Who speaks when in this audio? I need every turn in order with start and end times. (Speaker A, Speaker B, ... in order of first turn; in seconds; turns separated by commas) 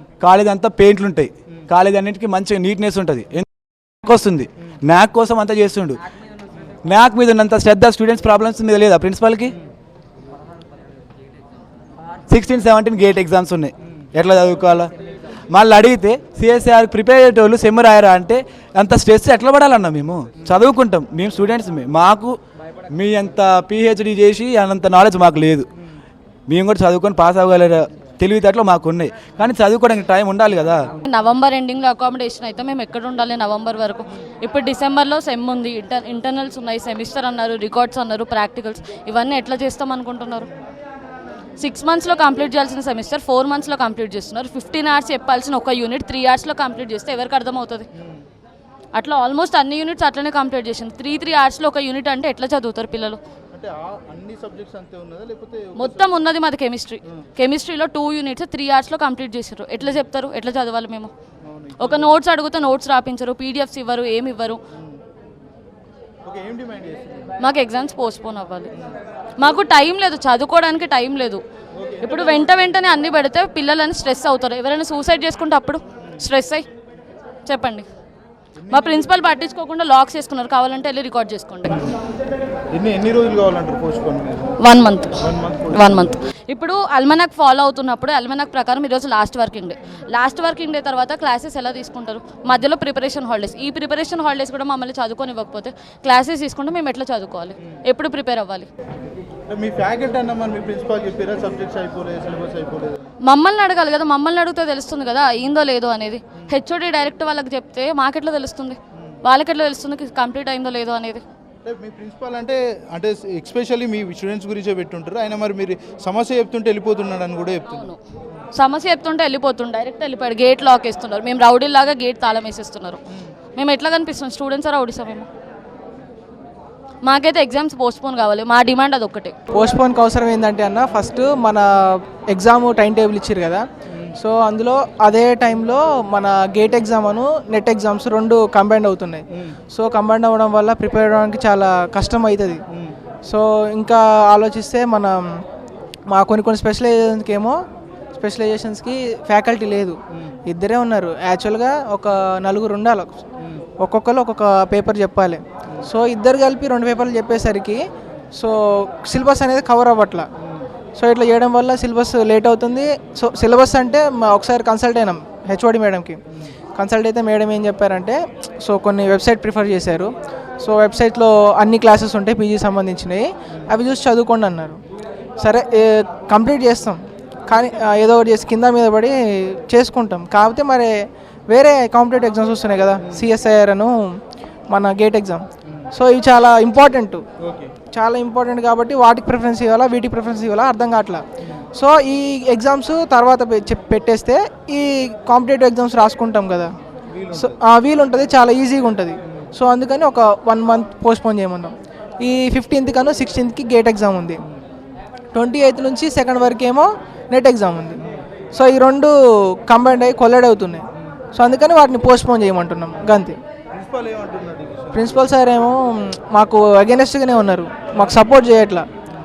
Speaker A: 0.2-3.5, Speaker A: 4.0-6.0, Speaker A: 6.9-9.6, Speaker A: 12.3-14.9, Speaker A: 15.5-22.4, Speaker A: 22.9-25.7, Speaker A: 26.5-30.8, Speaker B: 31.0-40.5, Speaker B: 41.6-47.9, Speaker B: 48.9-53.2, Speaker C: 53.5-56.2, Speaker B: 55.8-61.1, Speaker C: 61.4-62.1, Speaker B: 61.8-64.6, Speaker C: 66.2-67.3, Speaker B: 67.4-68.7, Speaker B: 69.4-71.4, Speaker C: 71.8-72.6, Speaker B: 72.0-76.7, Speaker B: 77.5-77.8, Speaker C: 78.6-79.1, Speaker B: 78.7-81.9, Speaker C: 82.7-84.6, Speaker B: 84.6-98.7, Speaker C: 85.2-86.1, Speaker C: 99.5-103.0, Speaker B: 103.3-111.2, Speaker C: 111.6-117.9, Speaker B: 117.7-118.0, Speaker B: 118.5-123.0, Speaker B: 123.6-125.3, Speaker B: 127.0-129.3, Speaker D: 129.5-131.7, Speaker D: 132.3-133.6, Speaker D: 134.2-142.6, Speaker D: 143.3-145.2, Speaker D: 146.1-147.6, Speaker D: 148.2-153.2, Speaker D: 153.8-157.8, Speaker D: 158.3-160.3, Speaker D: 161.0-166.2, Speaker D: 166.8-170.1, Speaker D: 170.6-174.8, Speaker D: 175.4-180.9, Speaker D: 181.5-183.9, Speaker D: 184.7-187.2, Speaker C: 187.4-187.7, Speaker D: 187.9-191.2, Speaker D: 191.7-196.7, Speaker C: 197.1-197.5, Speaker D: 197.3-204.4, Speaker D: 205.3-208.0, Speaker D: 208.5-209.1, Speaker D: 209.7-210.8, Speaker D: 211.3-213.3, Speaker C: 213.7-215.2, Speaker D: 214.9-215.8, Speaker D: 216.3-218.8